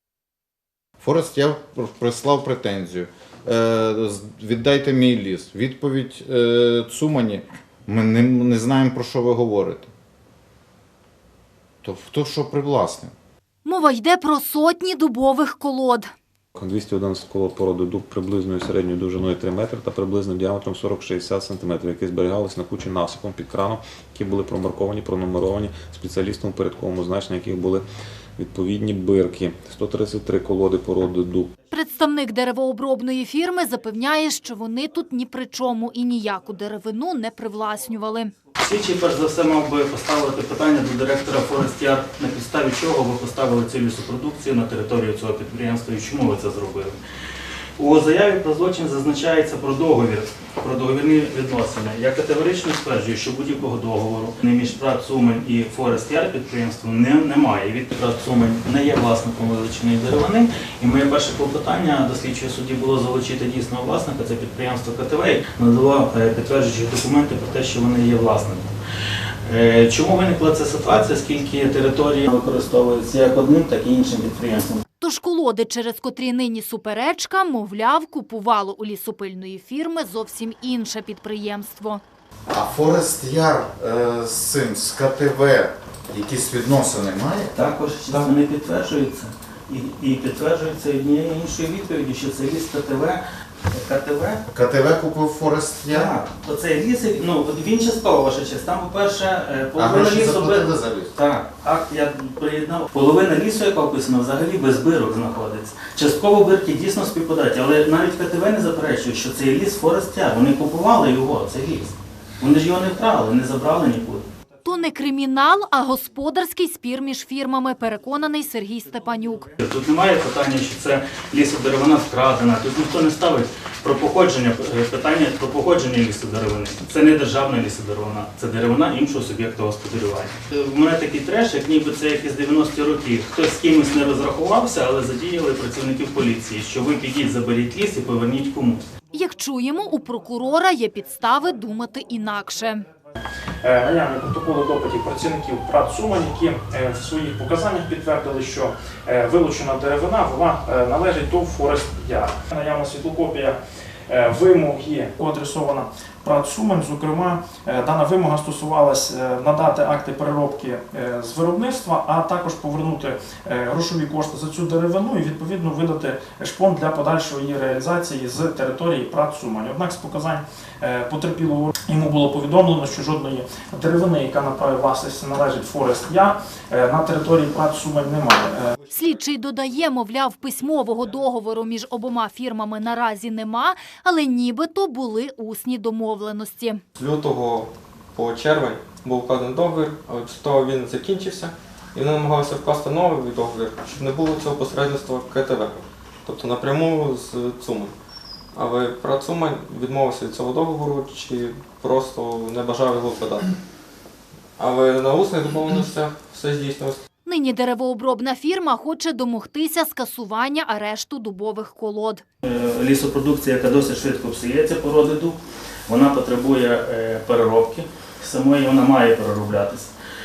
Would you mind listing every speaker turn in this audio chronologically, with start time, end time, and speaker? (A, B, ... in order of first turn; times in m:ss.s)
0:01.0-0:09.9 A
0:11.8-0:13.1 A
0:13.6-0:16.1 B
0:16.6-0:27.8 C
0:28.4-0:31.5 C
0:31.7-0:38.3 B
0:38.6-0:47.0 D
0:47.8-1:08.7 D
1:09.4-1:14.8 D
1:15.0-1:22.0 B
1:22.5-1:27.6 A
1:27.5-1:33.2 D
1:33.7-1:34.4 D
1:34.5-1:36.1 A
1:35.9-1:54.3 D
1:39.8-1:41.1 A
1:54.6-1:59.5 B
1:59.6-2:18.9 D
2:19.1-2:22.9 B
2:19.6-2:20.5 E
2:23.6-2:58.8 E
2:58.9-3:06.8 B
3:07.0-3:17.9 F
3:18.5-3:23.5 F
3:24.6-3:27.0 F
3:27.3-3:32.2 B
3:32.4-3:39.9 D